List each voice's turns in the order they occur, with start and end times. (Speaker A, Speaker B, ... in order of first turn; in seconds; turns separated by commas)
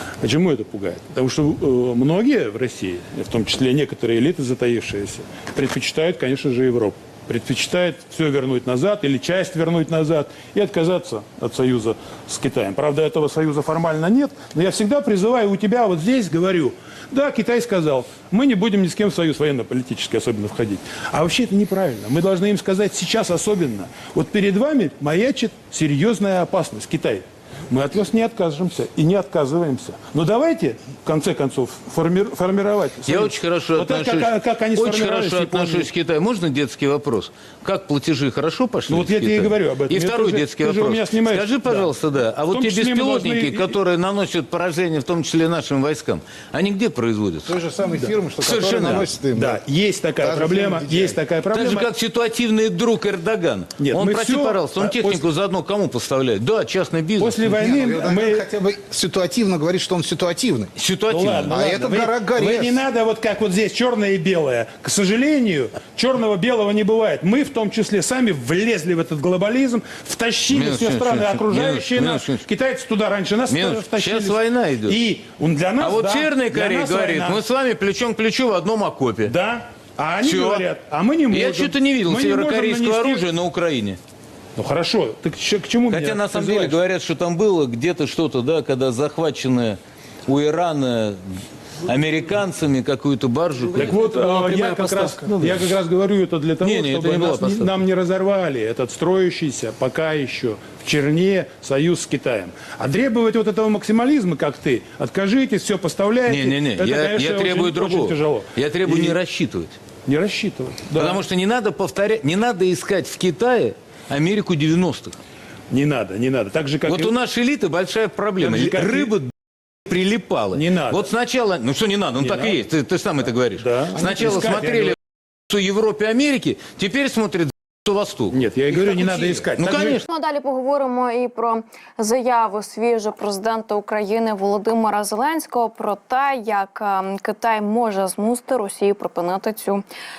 Speaker A: 0.2-35.9, Speaker B: 33.1-47.6, Speaker A: 38.9-41.9, Speaker A: 42.5-43.8, Speaker C: 47.5-49.6, Speaker B: 48.4-49.1, Speaker A: 49.4-51.9, Speaker C: 50.2-51.2, Speaker B: 51.5-57.4, Speaker A: 53.8-55.2, Speaker A: 57.2-58.5, Speaker C: 57.5-60.7, Speaker B: 60.8-61.6, Speaker A: 61.1-77.4, Speaker C: 61.5-62.8, Speaker B: 70.5-72.5, Speaker B: 73.5-75.0, Speaker B: 75.8-79.3, Speaker A: 79.2-83.3, Speaker B: 80.2-80.7, Speaker B: 81.3-84.0, Speaker A: 84.6-86.8, Speaker B: 85.9-91.2, Speaker B: 91.8-95.7, Speaker A: 93.7-109.2, Speaker B: 96.6-97.7, Speaker B: 106.3-109.8, Speaker A: 110.1-111.2, Speaker B: 111.0-115.2, Speaker A: 115.7-117.1, Speaker B: 116.9-119.3, Speaker A: 118.4-119.2, Speaker B: 119.9-125.0, Speaker A: 120.5-121.1, Speaker A: 122.2-122.6, Speaker A: 123.6-125.0, Speaker B: 125.5-130.0, Speaker A: 128.3-130.0, Speaker D: 130.1-139.8